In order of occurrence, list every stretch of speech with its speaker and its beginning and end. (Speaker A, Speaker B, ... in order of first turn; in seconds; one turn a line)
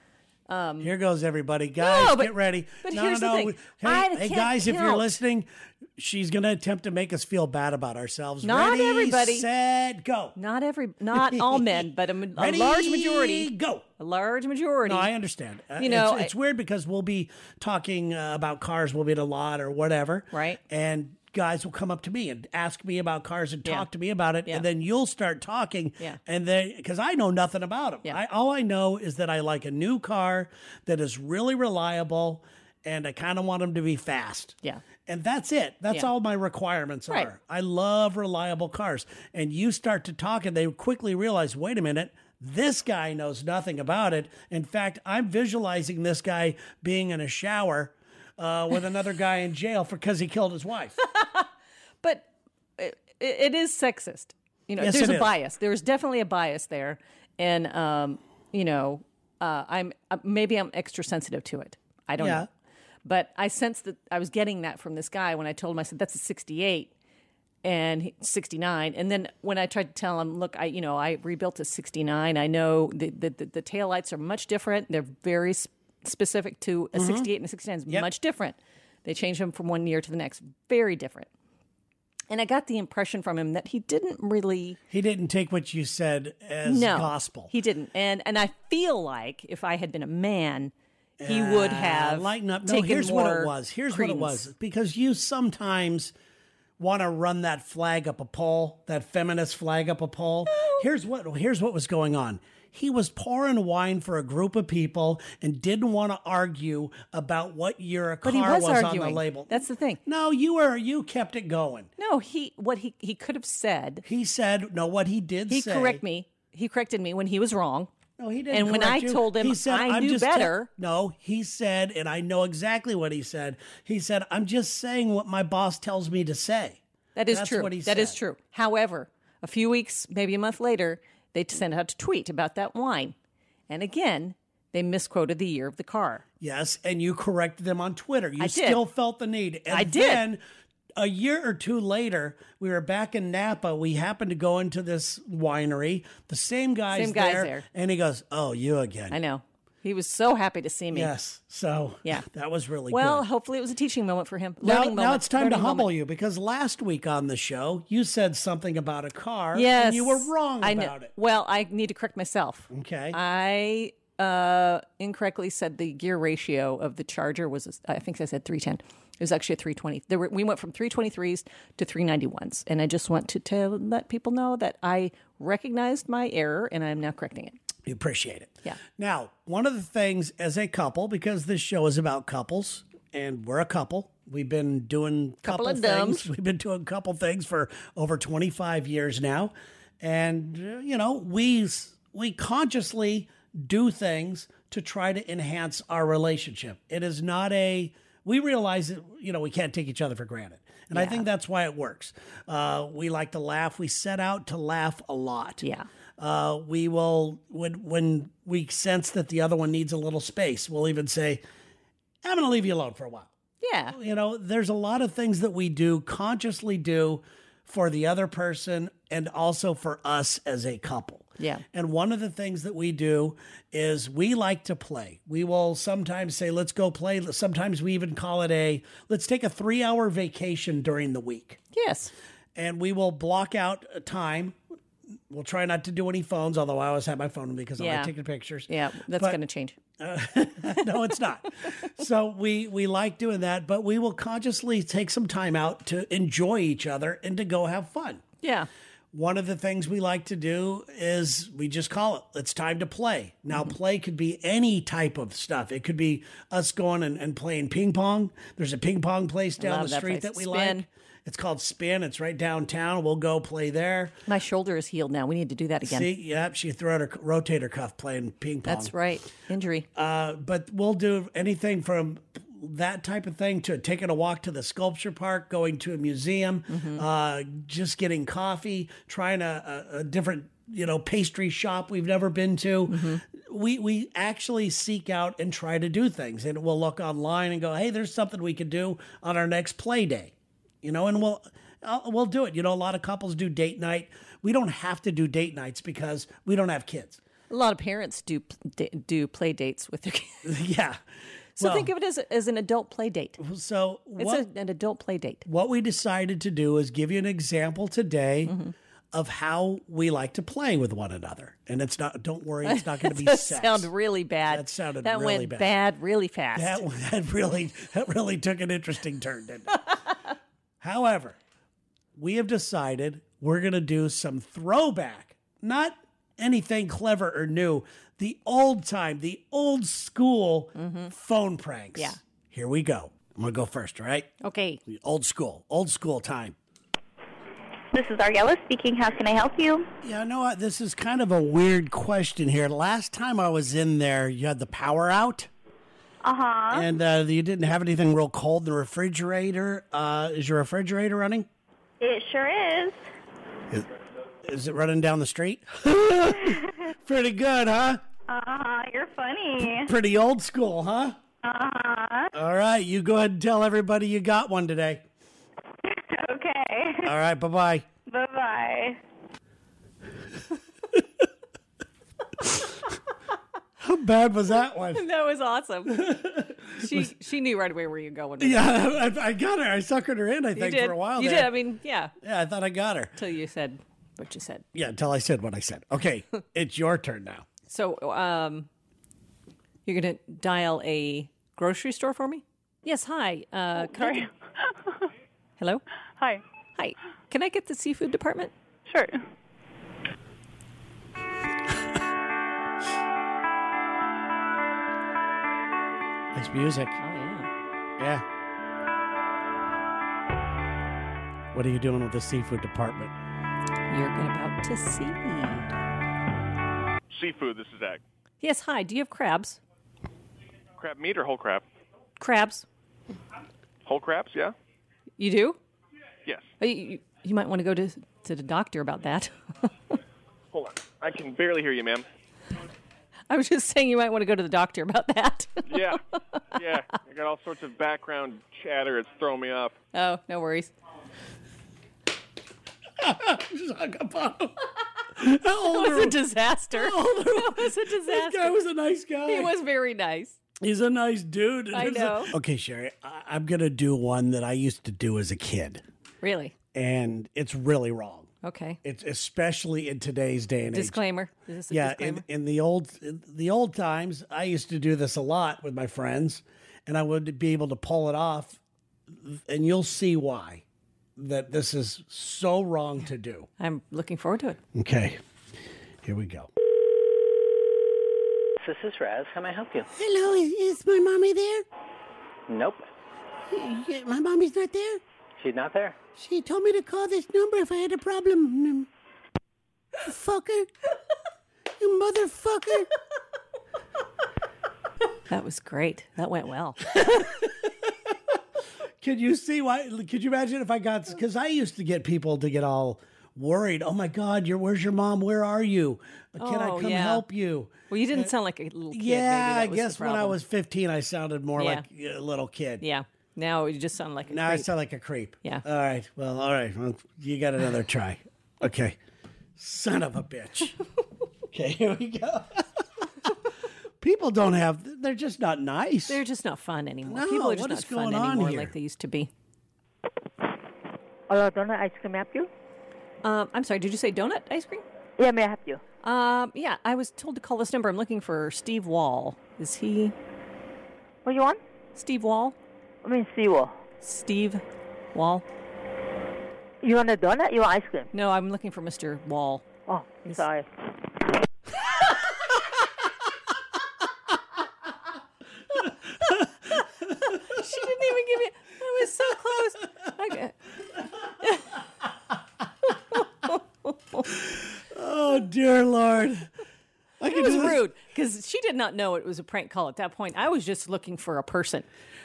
Speaker A: 0.5-0.9
Speaker B: 0.8-10.3
Speaker A: 1.8-5.1
Speaker A: 8.4-9.5
Speaker A: 10.3-15.1
Speaker B: 11.1-11.8
Speaker B: 12.3-13.8
Speaker B: 14.8-51.0
Speaker A: 15.8-16.3
Speaker A: 20.3-20.6
Speaker A: 51.0-51.5
Speaker A: 52.0-62.5
Speaker B: 54.8-55.3
Speaker B: 62.2-62.5
Speaker A: 63.0-66.9
Speaker A: 67.6-81.3
Speaker B: 76.9-77.3
Speaker A: 82.3-84.8
Speaker B: 84.9-87.5
Speaker A: 86.6-90.7
Speaker B: 91.2-96.1
Speaker A: 91.2-94.5
Speaker B: 96.8-111.9
Speaker A: 100.5-100.9
Speaker A: 108.2-110.0
Speaker A: 112.0-114.0
Speaker B: 114.0-116.0
Speaker A: 115.5-117.9
Speaker B: 118.2-128.2
Speaker A: 118.5-120.7
Speaker A: 127.1-133.1
Speaker A: 133.7-136.2
Speaker B: 136.4-140.4
Speaker A: 138.4-138.8
Speaker A: 139.7-140.2
Speaker B: 140.9-149.2
Speaker A: 146.9-147.7
Speaker A: 149.1-151.1
Speaker B: 150.9-153.2
Speaker A: 152.9-155.9
Speaker B: 154.6-161.1
Speaker A: 159.5-177.6
Speaker B: 162.7-163.2
Speaker B: 177.8-205.6
Speaker A: 185.4-186.3
Speaker A: 200.9-201.2
Speaker A: 205.6-205.9
Speaker B: 206.2-211.4
Speaker B: 212.2-213.3
Speaker A: 213.6-214.0
Speaker B: 213.9-231.6
Speaker A: 221.4-221.6
Speaker A: 231.7-232.1
Speaker B: 232.6-234.6
Speaker B: 235.3-239.4
Speaker A: 237.8-238.1
Speaker A: 238.7-239.8
Speaker B: 240.0-248.2
Speaker A: 248.4-248.7
Speaker B: 249.1-264.1
Speaker A: 259.6-260.9
Speaker A: 264.3-266.1
Speaker B: 265.8-268.9
Speaker A: 268.6-269.9
Speaker B: 269.9-297.2
Speaker A: 276.7-277.0
Speaker A: 282.9-283.2
Speaker A: 297.5-300.5
Speaker B: 300.4-301.0
Speaker A: 301.6-303.4
Speaker B: 301.6-301.9
Speaker B: 303.4-304.5
Speaker A: 304.2-305.4
Speaker B: 305.4-308.6
Speaker A: 308.4-308.7
Speaker B: 309.1-313.9
Speaker A: 312.6-316.8
Speaker B: 314.5-315.7
Speaker B: 316.5-319.9
Speaker B: 320.8-321.4
Speaker B: 322.1-334.3
Speaker A: 330.8-331.1
Speaker A: 334.4-334.8
Speaker B: 334.9-336.6
Speaker C: 337.9-339.9
Speaker B: 340.0-345.5
Speaker C: 346.2-346.9
Speaker B: 346.7-351.5
Speaker C: 352.0-353.0
Speaker B: 354.4-358.0
Speaker C: 358.3-359.9
Speaker B: 359.6-361.2
Speaker C: 361.4-362.3
Speaker B: 362.3-365.0
Speaker C: 365.8-367.1
Speaker B: 367.0-367.9
Speaker C: 368.1-369.0
Speaker B: 373.8-375.0
Speaker A: 374.9-376.1
Speaker B: 375.9-377.1
Speaker A: 376.8-378.7
Speaker B: 378.4-381.6
Speaker A: 380.5-382.1
Speaker B: 382.2-383.1
Speaker A: 383.1-384.6
Speaker B: 384.7-387.4
Speaker A: 387.6-388.7
Speaker A: 389.8-394.3
Speaker A: 395.6-395.8
Speaker A: 396.8-398.5
Speaker B: 406.3-407.0
Speaker A: 407.0-407.5
Speaker B: 408.0-408.2
Speaker B: 411.5-413.1
Speaker A: 413.9-415.7
Speaker D: 417.1-418.0
Speaker A: 418.4-419.6
Speaker D: 420.8-421.6
Speaker A: 422.2-422.6
Speaker D: 423.8-424.5
Speaker A: 425.2-425.6
Speaker A: 426.6-429.7
Speaker D: 430.5-432.1
Speaker A: 433.3-436.0
Speaker D: 435.7-436.0
Speaker D: 436.5-439.8
Speaker A: 439.9-440.7
Speaker B: 443.0-446.2
Speaker A: 445.6-448.6
Speaker B: 446.7-449.5
Speaker A: 449.2-450.4
Speaker B: 450.6-455.8
Speaker A: 451.7-452.3
Speaker A: 456.2-456.5
Speaker B: 456.7-458.3
Speaker A: 458.4-458.8
Speaker B: 458.8-461.0
Speaker A: 460.7-462.2
Speaker B: 461.7-468.6
Speaker B: 469.2-470.6
Speaker B: 471.2-473.5
Speaker A: 473.6-474.6
Speaker B: 474.7-475.2
Speaker B: 476.0-476.5
Speaker E: 478.6-479.9
Speaker B: 479.9-481.6
Speaker E: 482.5-482.8
Speaker B: 483.5-485.0
Speaker E: 485.4-486.0
Speaker B: 486.1-488.9
Speaker B: 490.0-490.7
Speaker B: 491.8-492.9
Speaker A: 495.3-497.4
Speaker B: 497.0-497.9
Speaker B: 499.0-508.3
Speaker A: 506.4-507.2
Speaker A: 507.9-510.4
Speaker B: 508.9-512.8
Speaker A: 511.6-511.9
Speaker A: 512.8-514.7
Speaker B: 514.3-519.0
Speaker B: 519.5-520.8
Speaker B: 521.5-523.3
Speaker B: 524.0-526.2
Speaker A: 526.1-529.3
Speaker B: 527.1-528.7
Speaker F: 531.3-532.5
Speaker A: 533.2-534.8
Speaker F: 535.2-535.8
Speaker A: 536.0-540.1
Speaker F: 541.2-541.6
Speaker A: 541.9-542.6
Speaker F: 543.0-543.8
Speaker A: 544.0-544.6
Speaker A: 545.1-545.5
Speaker F: 546.8-548.1
Speaker A: 548.1-549.6
Speaker F: 549.9-550.7
Speaker A: 557.2-560.6
Speaker A: 561.2-561.8
Speaker A: 562.9-564.2
Speaker B: 564.3-566.5
Speaker B: 567.2-567.8
Speaker A: 567.2-571.9